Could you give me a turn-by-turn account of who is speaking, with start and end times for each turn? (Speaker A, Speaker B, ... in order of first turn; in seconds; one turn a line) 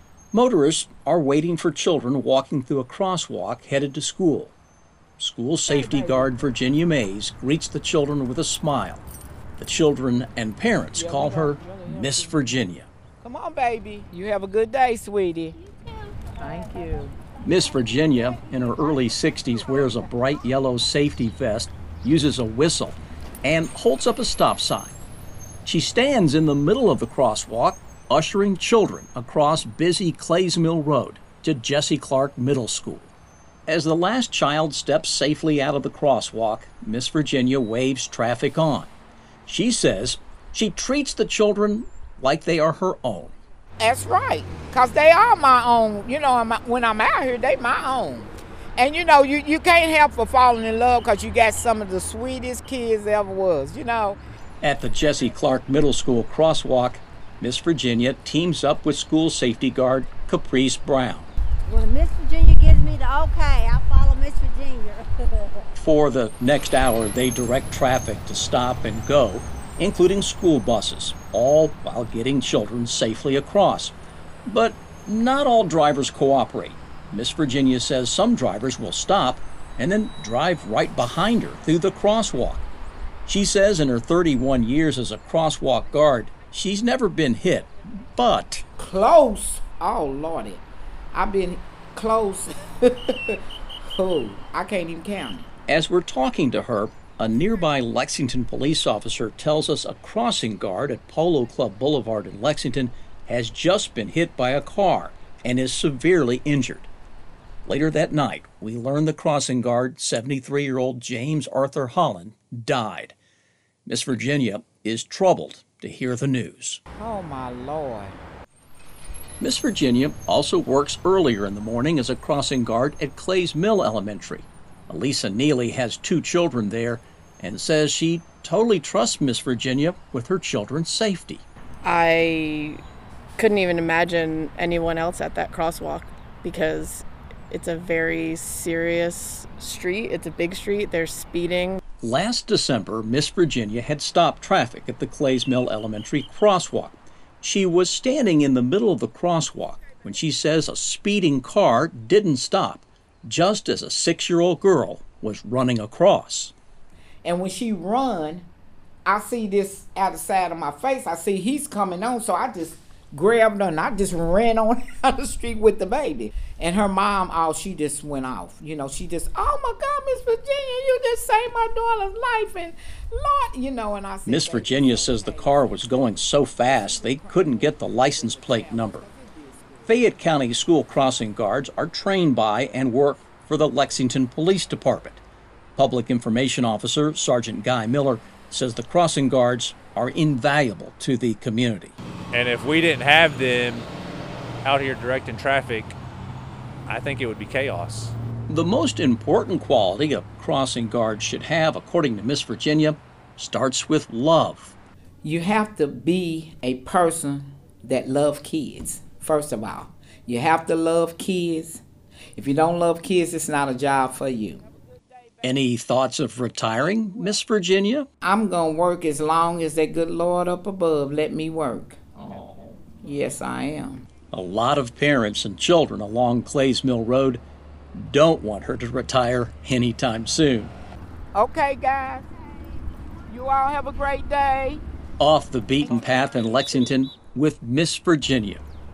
Speaker A: 0.3-4.5
Speaker A: 5.2-9.0
Speaker B: 5.7-6.4
Speaker A: 9.6-12.9
Speaker B: 10.9-12.4
Speaker B: 13.2-15.6
Speaker B: 16.4-17.1
Speaker A: 17.4-24.9
Speaker A: 25.6-33.1
Speaker A: 33.7-38.9
Speaker A: 39.5-43.3
Speaker B: 43.8-54.2
Speaker A: 54.6-61.3
Speaker C: 61.7-65.6
Speaker A: 65.8-73.9
Speaker A: 74.5-82.6
Speaker A: 83.3-88.6
Speaker B: 88.8-95.5
Speaker A: 95.7-106.9
Speaker A: 107.7-113.2
Speaker A: 113.8-116.8
Speaker B: 117.0-118.2
Speaker A: 119.4-131.4
Speaker D: 131.8-132.8
Speaker D: 133.4-141.8
Speaker A: 142.0-156.5
Speaker B: 157.2-158.5
Speaker B: 159.1-180.0
Speaker A: 174.2-179.0
Speaker A: 179.9-185.2
Speaker A: 185.8-191.9
Speaker E: 192.3-193.8
Speaker E: 194.6-196.0
Speaker E: 196.9-198.1
Speaker A: 198.5-204.7
Speaker B: 205.2-211.8
Speaker B: 212.3-214.6
Speaker A: 215.4-218.1
Speaker B: 218.2-224.1
Speaker A: 224.3-227.4
Speaker A: 227.9-230.7
Speaker B: 231.3-232.2
Speaker B: 233.3-234.8
Speaker A: 235.2-238.6
Speaker B: 235.8-236.9